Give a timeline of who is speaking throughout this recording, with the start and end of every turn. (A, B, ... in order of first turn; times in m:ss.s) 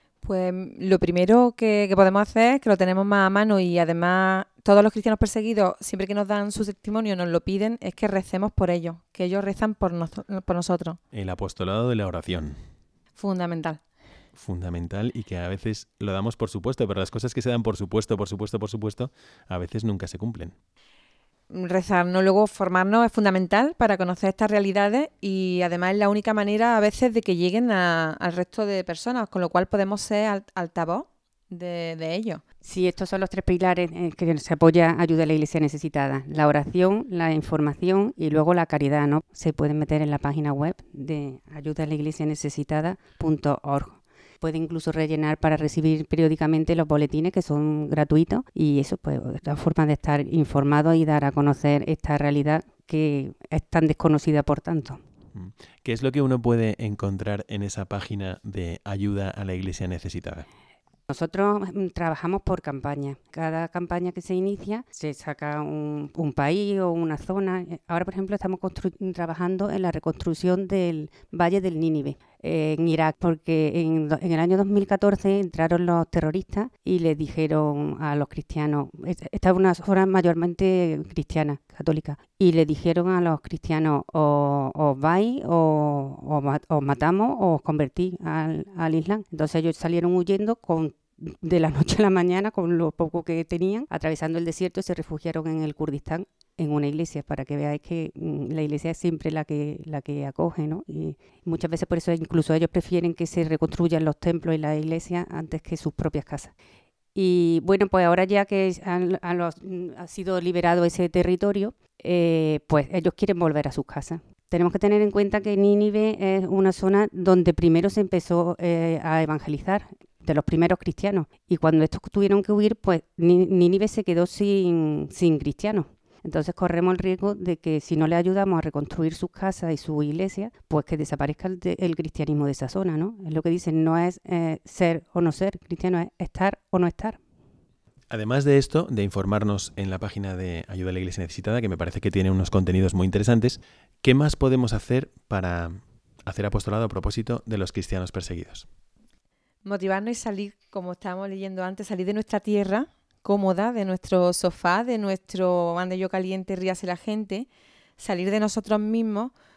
0:00.2-0:11.0 A
0:11.1-0:12.6 B
0:13.2-0:13.8 A
0:14.3-0:20.5 B
0:21.5-0:32.4 A
0:32.6-0:55.0 C
0:55.3-1:00.5 B
1:01.1-1:46.5 C
1:47.1-2:17.2 C
2:18.1-2:28.7 B
2:29.6-2:37.5 A
2:38.0-2:39.3 A